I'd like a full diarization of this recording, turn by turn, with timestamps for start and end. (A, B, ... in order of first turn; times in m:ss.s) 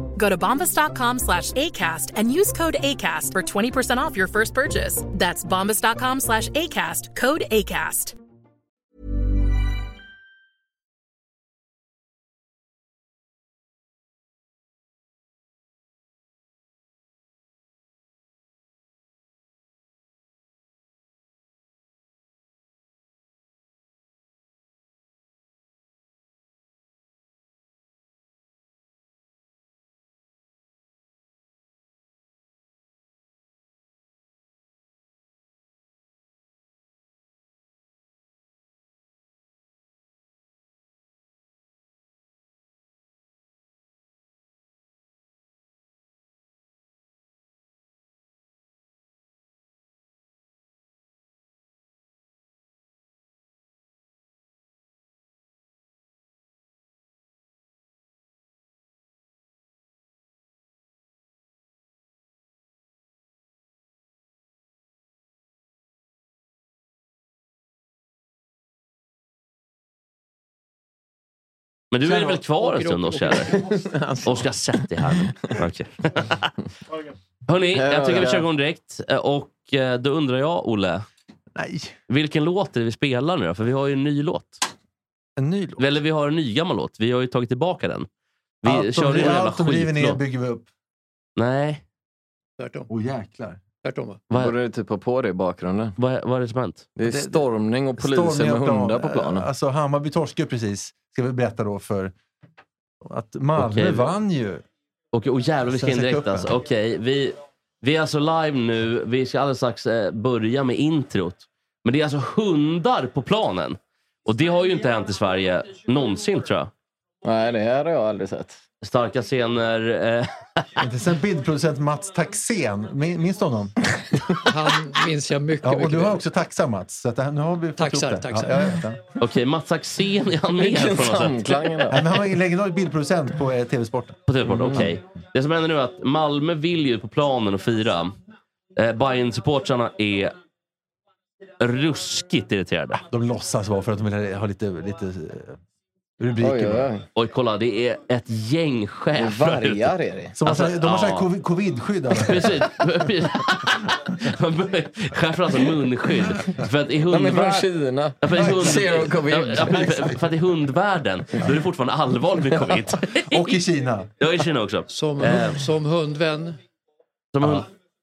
0:00.2-0:08.1 A
1:11.9-1:13.5 B
1:12.0-1:13.8 C
1:13.5-1:15.1 D
1:14.2-1:16.5 B
1:17.5-1:21.0 B
1:17.7-1:18.4 D
1:21.5-1:22.0 E
1:22.1-1:24.6 B
1:25.4-1:25.9 E
1:25.8-1:28.1 B
1:28.6-1:30.2 B
1:28.6-1:30.7 E
1:31.4-1:31.8 B
1:32.6-1:32.9 C
1:32.9-1:33.6 E
1:33.8-1:34.2 C
1:34.3-1:34.5 B
1:34.3-1:35.9 D
1:36.0-1:36.9 B
1:37.0-1:39.5 D
1:37.0-1:42.1 E
1:43.0-1:44.6 E
1:43.6-1:44.1 B
1:45.1-1:56.7 B
1:45.7-1:46.5 E
1:57.2-1:58.6 D
1:58.8-2:00.8 B
2:00.8-2:03.8 E
2:04.4-2:06.2 C
2:05.6-2:09.1 E
2:07.8-2:08.8 C
2:09.2-2:12.0 B
2:10.6-2:12.0 D
2:11.9-2:15.0 E
2:14.3-2:18.2 B
2:14.6-2:14.8 D
2:18.7-2:20.3 B
2:21.6-2:23.0 B
2:23.1-2:25.6 E
2:26.2-2:26.9 E
2:26.4-2:27.0 D
2:27.1-2:31.3 B
2:29.2-2:30.3 D
2:30.3-2:32.7 E
2:32.2-2:37.7 B
2:37.1-2:40.1 D
2:38.2-2:43.6 B
2:38.3-2:38.9 E
2:43.1-2:44.1 E
2:44.2-2:45.6 B
2:44.9-2:46.6 C
2:47.3-2:47.7 B